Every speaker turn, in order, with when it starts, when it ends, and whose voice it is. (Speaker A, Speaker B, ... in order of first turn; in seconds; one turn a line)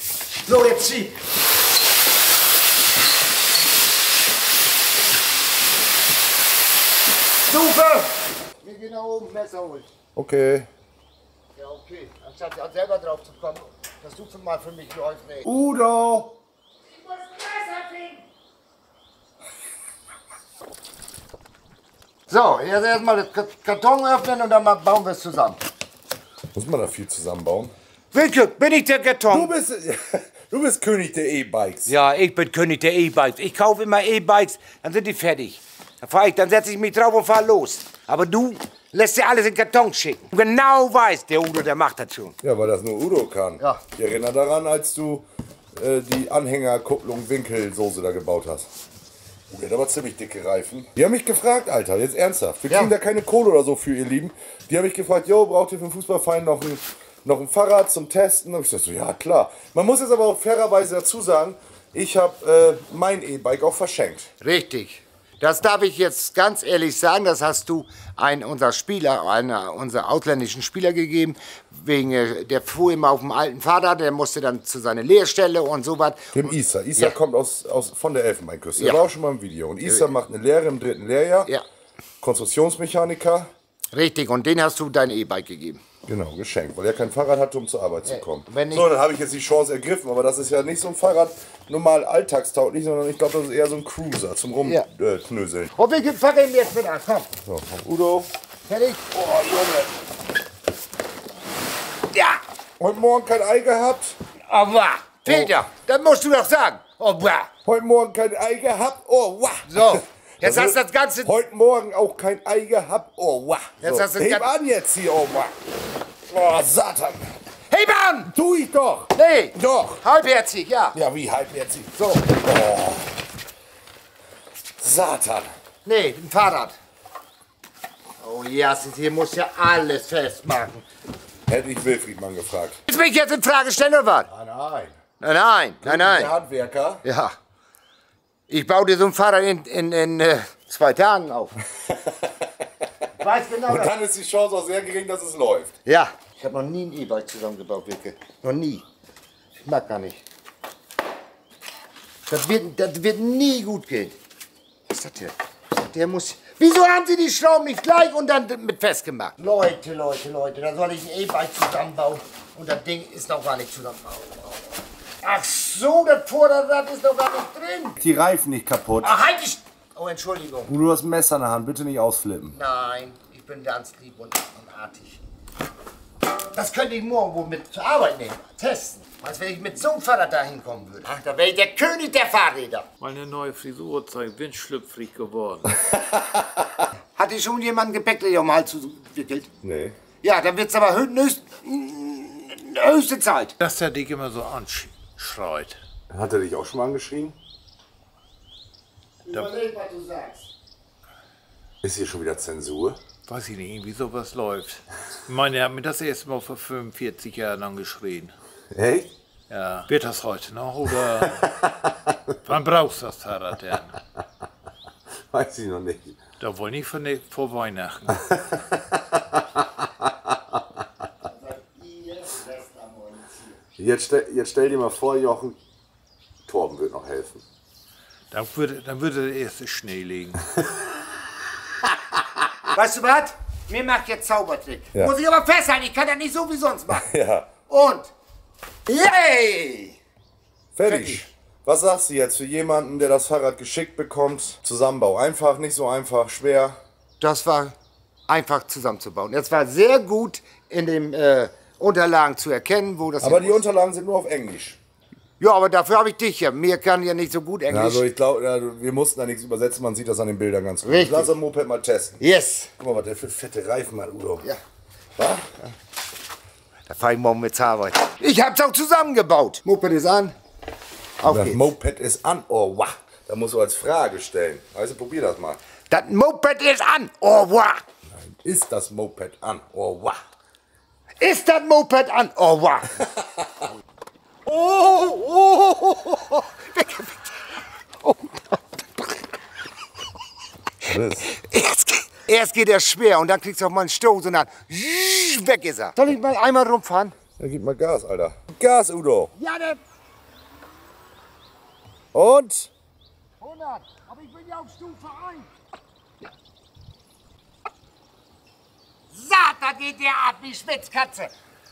Speaker A: 0.4-1.2
Speaker A: 7.5-9.9
Speaker B: 10.2-10.7
Speaker A: 11.6-15.5
Speaker B: 15.4-16.3
Speaker A: 16.9-18.2
Speaker A: 22.3-25.6
Speaker B: 26.5-27.7
Speaker A: 28.1-29.5
Speaker B: 29.3-31.9
Speaker A: 31.9-42.4
Speaker B: 42.4-48.7
Speaker B: 49.5-64.3
Speaker A: 64.4-76.4
Speaker B: 76.3-81.5
Speaker A: 78.8-79.0
Speaker B: 82.2-83.5
Speaker A: 83.9-85.8
Speaker B: 86.1-95.7
Speaker A: 88.0-88.9
Speaker A: 95.7-97.3
Speaker B: 97.4-98.3
Speaker A: 98.7-99.2
Speaker B: 99.1-99.9
Speaker A: 102.1-102.4
Speaker B: 102.8-104.2
Speaker A: 104.5-107.5
Speaker B: 105.2-105.5
Speaker B: 107.6-115.5
Speaker A: 109.7-111.3
Speaker A: 113.8-114.5
Speaker B: 116.3-117.3
Speaker A: 117.7-118.3
Speaker B: 118.3-120.0
Speaker A: 119.1-121.0
Speaker B: 120.9-123.1
Speaker A: 122.0-122.2
Speaker B: 124.8-125.5
Speaker A: 125.8-126.8
Speaker A: 128.2-130.8
Speaker B: 131.5-132.8
Speaker A: 132.9-134.3
Speaker B: 134.3-134.9
Speaker A: 135.2-136.3
Speaker B: 135.8-137.0
Speaker A: 137.0-137.3
Speaker A: 138.5-141.5
Speaker B: 141.8-142.5
Speaker A: 143.2-143.9
Speaker B: 143.7-145.7
Speaker A: 145.8-148.8
Speaker A: 149.6-150.2
Speaker A: 152.3-154.2
Speaker A: 154.9-164.4
Speaker A: 165.2-168.0
Speaker B: 168.0-169.1
Speaker A: 169.0-170.7
Speaker B: 170.7-172.5
Speaker A: 172.5-175.2
Speaker A: 176.5-182.9
Speaker C: 183.0-185.8
Speaker A: 187.2-189.5
Speaker B: 189.6-190.0
Speaker A: 190.2-193.5
Speaker C: 193.6-195.8
Speaker B: 196.1-197.4
Speaker A: 199.2-200.5
Speaker B: 201.8-203.0
Speaker C: 203.3-208.3
Speaker B: 208.7-209.1
Speaker C: 209.5-211.5
Speaker B: 211.2-212.4
Speaker C: 212.4-214.0
Speaker B: 215.3-216.2
Speaker C: 216.4-218.3
Speaker B: 218.2-220.6
Speaker A: 221.2-223.6
Speaker B: 223.8-225.6
Speaker B: 226.5-227.4
Speaker C: 228.3-230.4
Speaker A: 232.7-237.1
Speaker B: 237.0-237.5
Speaker A: 237.7-238.1
Speaker A: 238.9-240.0
Speaker B: 240.7-246.8
Speaker A: 240.8-241.2
Speaker A: 247.2-247.7
Speaker A: 248.3-253.6
Speaker B: 253.2-254.8
Speaker A: 255.4-258.1
Speaker B: 257.7-262.2
Speaker A: 260.8-261.3
Speaker A: 262.2-262.7
Speaker B: 262.8-264.4
Speaker B: 265.2-265.5
Speaker A: 266.9-270.4
Speaker A: 271.2-271.7
Speaker B: 271.2-275.6
Speaker A: 275.9-277.9
Speaker B: 278.2-280.2
Speaker A: 281.2-283.0
Speaker B: 284.5-285.8
Speaker A: 284.5-287.4
Speaker B: 290.9-291.3
Speaker A: 290.9-297.1
Speaker B: 297.4-299.3
Speaker A: 299.4-299.8
Speaker B: 302.1-302.7
Speaker A: 303.4-305.5
Speaker A: 309.1-311.3